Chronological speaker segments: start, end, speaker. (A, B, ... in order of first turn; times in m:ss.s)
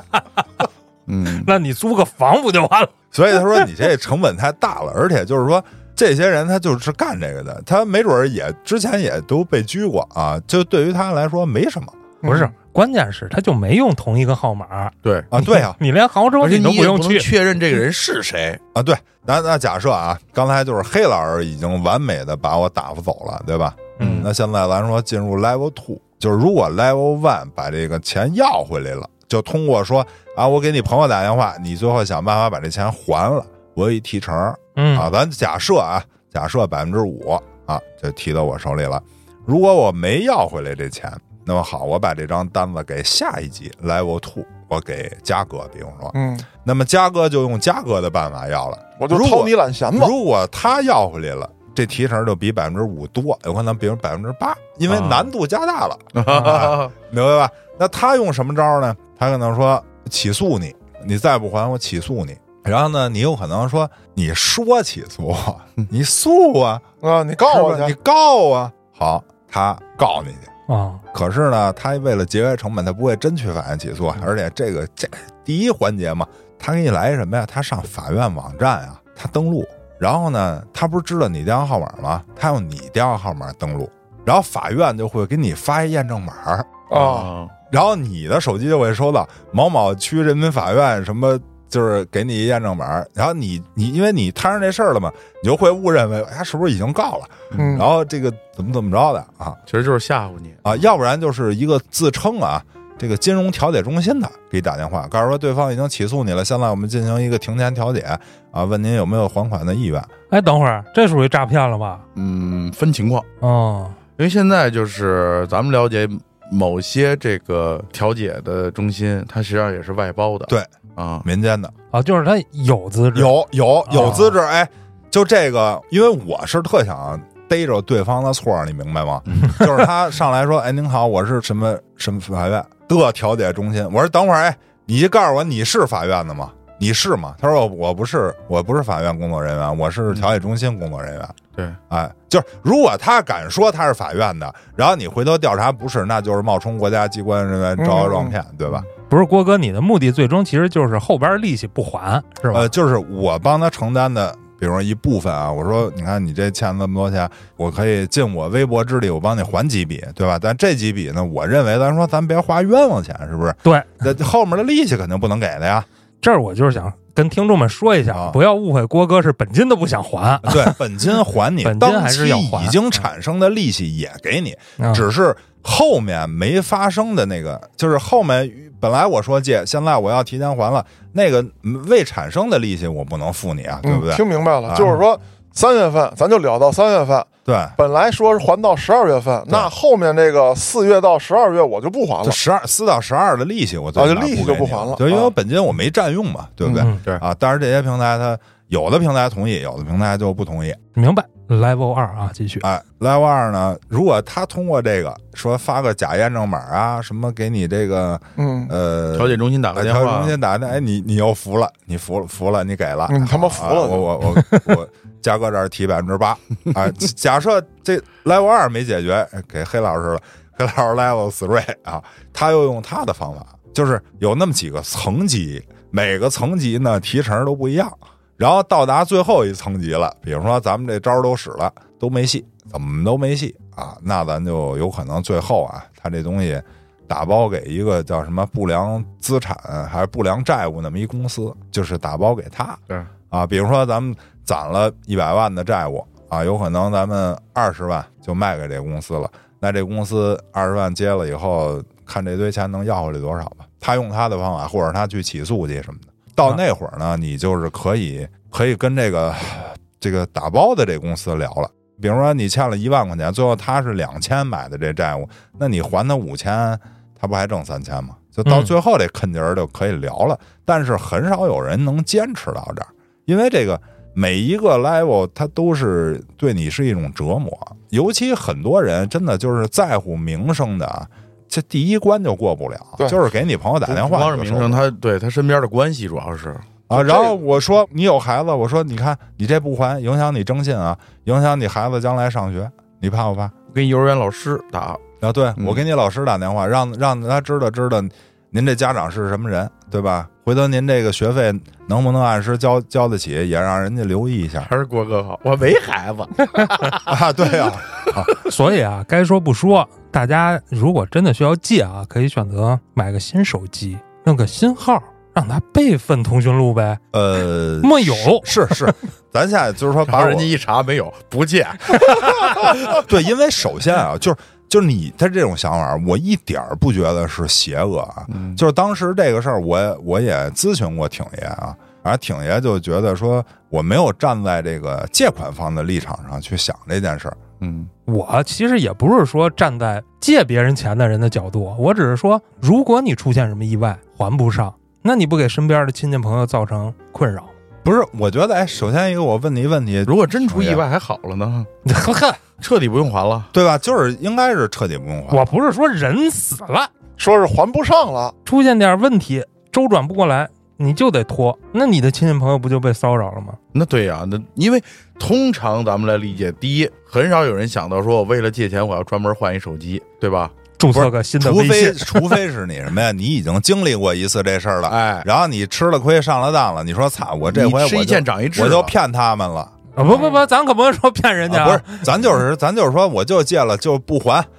0:01.1-0:01.5 A
0:01.3-0:03.7 B
0:03.1-0:12.0 C
0:12.2-0:12.5 D
0:12.2-0:17.3 B
0:15.0-0:15.3 A
0:15.3-0:15.8 C
0:16.4-0:18.6 A
0:18.7-1:06.8 C
0:24.0-0:24.3 A
0:24.0-0:24.3 B
0:34.8-0:35.1 B
0:46.1-0:46.5 D
0:49.0-0:50.1 D
0:54.9-0:55.3 A
0:56.1-0:56.9 A
0:56.3-0:56.6 B
1:07.0-1:07.9 D
1:07.4-1:10.5 C
1:10.7-1:11.0 B
1:11.1-1:26.8 C
1:26.9-1:27.3 D
1:26.9-1:27.5 A
1:27.7-1:39.6 C
1:37.5-1:37.8 A
1:37.6-1:37.9 D
1:39.7-1:40.6 A
1:40.6-1:50.1 C
1:50.3-1:52.0 B
1:52.1-1:53.3 A
1:53.4-1:54.0 B
1:54.2-2:01.2 A
2:01.2-2:01.7 C
2:01.9-2:04.3 B
2:03.1-2:21.4 C
2:21.9-2:28.9 C
2:27.8-2:28.3 D
2:29.0-2:32.7 B
2:32.5-2:45.9 C
2:43.6-2:44.0 B
2:46.2-2:50.8 B
2:48.1-2:48.4 C
2:50.4-3:05.0 C
2:51.6-2:53.0 B
2:54.8-2:55.0 B
3:03.8-3:12.4 D
3:07.4-3:07.8 C
3:12.2-3:20.8 C
3:14.0-3:15.3 D
3:16.6-3:17.2 A
3:20.9-3:22.6 B
3:22.6-4:44.8 C
3:28.4-3:28.7 D
3:29.1-3:30.4 A
3:33.1-3:34.1 D
4:28.4-4:28.7 B
4:43.8-4:46.7 A
4:46.9-4:53.5 C
4:46.9-4:47.3 D
4:53.7-4:55.0 A
4:55.2-5:04.7 C
4:55.6-4:55.8 A
5:04.6-5:07.1 A
5:07.0-5:08.3 C
5:08.3-5:17.0 B
5:17.1-5:20.5 C
5:17.8-5:18.9 B
5:20.0-5:23.0 A
5:22.8-5:37.4 C
5:28.3-5:28.6 A
5:37.6-5:37.9 A
5:38.1-5:47.5 B
5:47.8-5:50.8 C
5:50.0-5:51.7 A
5:51.8-5:52.4 B
5:52.6-5:53.5 A
5:53.5-5:55.5 C
5:55.3-5:56.9 B
5:57.2-5:58.3 D
5:58.4-6:03.6 B
6:03.7-6:10.6 A
6:10.8-6:12.4 B
6:10.9-6:20.4 C
6:14.9-6:15.3 A
6:17.5-6:18.9 A
6:20.0-6:22.0 B
6:21.5-6:24.5 C